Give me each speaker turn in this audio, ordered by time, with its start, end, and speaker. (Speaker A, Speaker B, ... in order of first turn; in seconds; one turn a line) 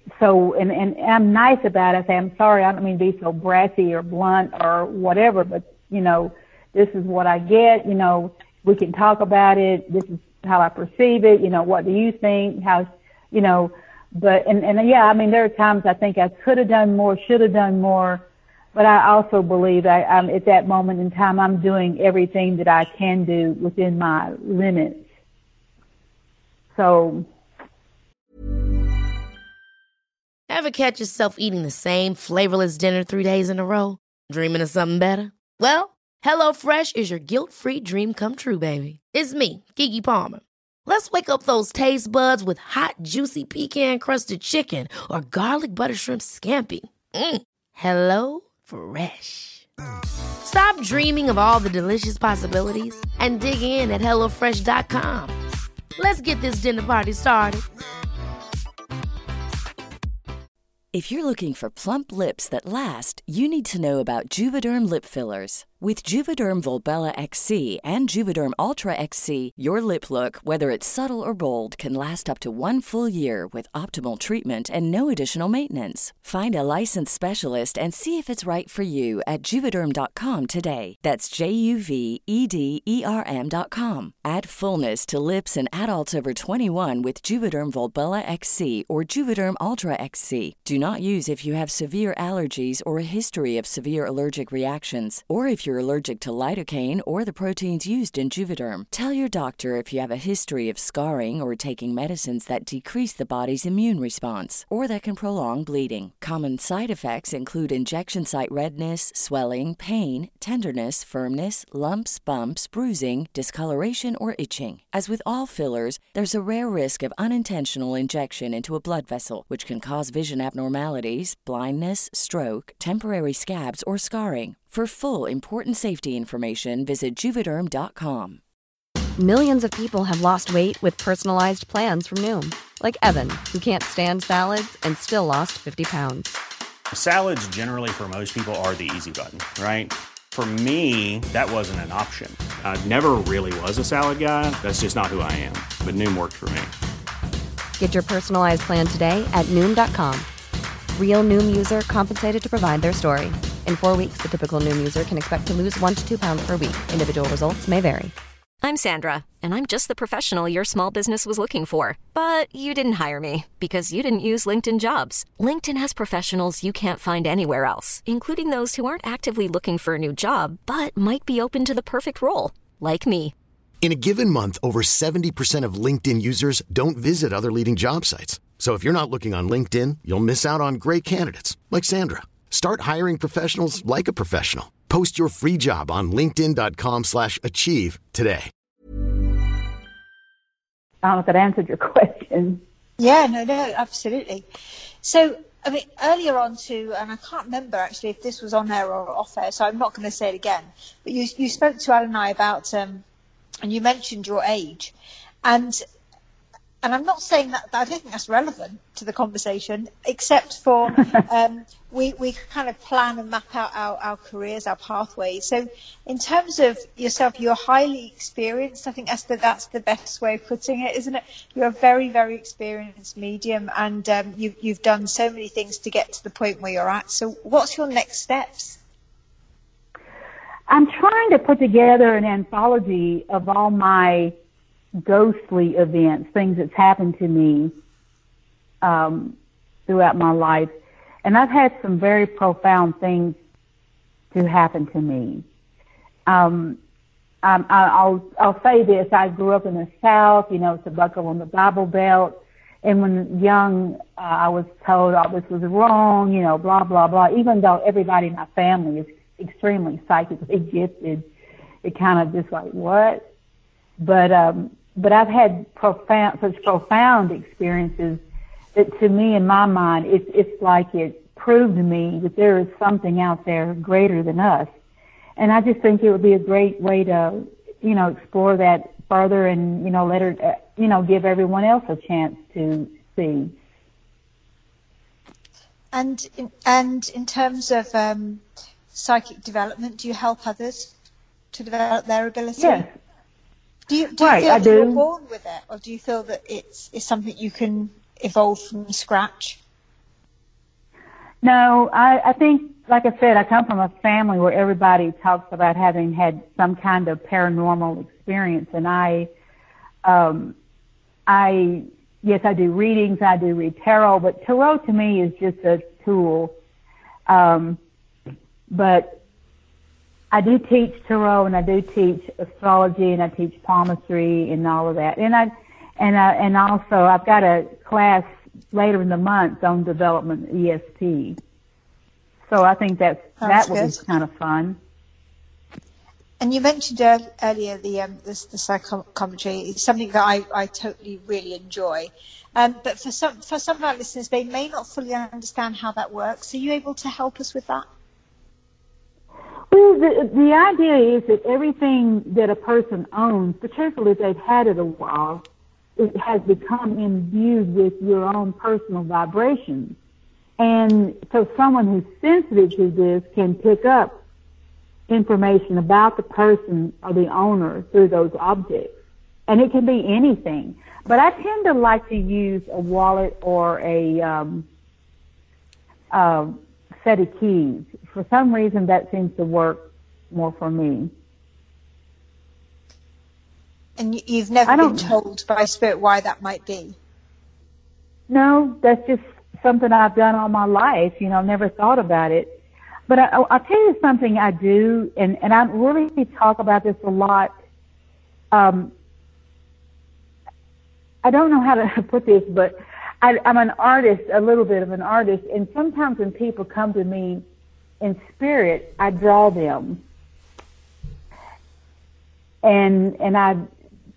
Speaker A: 0.2-25.0
Speaker A: 26.7-27.3
Speaker B: 30.5-49.7
Speaker B: 50.4-55.3
Speaker B: 56.0-57.6
Speaker C: 60.9-128.4
Speaker D: 129.2-136.3
Speaker E: 136.9-146.7
Speaker D: 147.8-150.3
Speaker D: 150.9-158.1
Speaker F: 158.6-173.3
Speaker G: 173.8-188.5
Speaker A: 191.0-192.6
Speaker H: 193.0-194.4
Speaker H: 195.0-203.0
Speaker H: 203.6-204.9
Speaker H: 205.4-205.8
Speaker H: 206.8-228.8
Speaker A: 230.7-234.3
Speaker A: 235.0-237.7
Speaker A: 238.8-239.3
Speaker A: 239.9-240.7
Speaker A: 241.2-243.4
Speaker A: 244.3-245.4
Speaker A: 246.3-246.8
Speaker A: 247.4-261.2
Speaker A: 261.8-263.2
Speaker A: 264.0-268.2
Speaker A: 268.7-274.7
Speaker A: 275.4-283.5
Speaker H: 285.9-288.4
Speaker H: 288.9-290.9
Speaker H: 291.5-292.9
Speaker A: 292.6-292.9
Speaker H: 293.9-299.6
Speaker A: 294.2-295.0
Speaker A: 301.4-309.3
Speaker A: 310.0-310.5
Speaker A: 311.3-316.5
Speaker A: 317.3-317.8
Speaker A: 318.7-319.2
Speaker A: 320.3-331.4
Speaker A: 332.5-334.8
Speaker H: 333.4-333.9
Speaker H: 336.4-347.8
Speaker A: 349.7-355.4
Speaker A: 356.0-359.9
Speaker A: 360.6-364.2
Speaker A: 365.1-368.9
Speaker A: 369.5-374.6
Speaker A: 376.1-381.1
Speaker H: 384.0-386.9
Speaker A: 384.6-385.1
Speaker A: 388.3-392.5
Speaker A: 393.1-397.5
Speaker A: 398.5-398.9
Speaker A: 401.2-407.4
Speaker A: 408.0-410.0
Speaker A: 412.6-413.6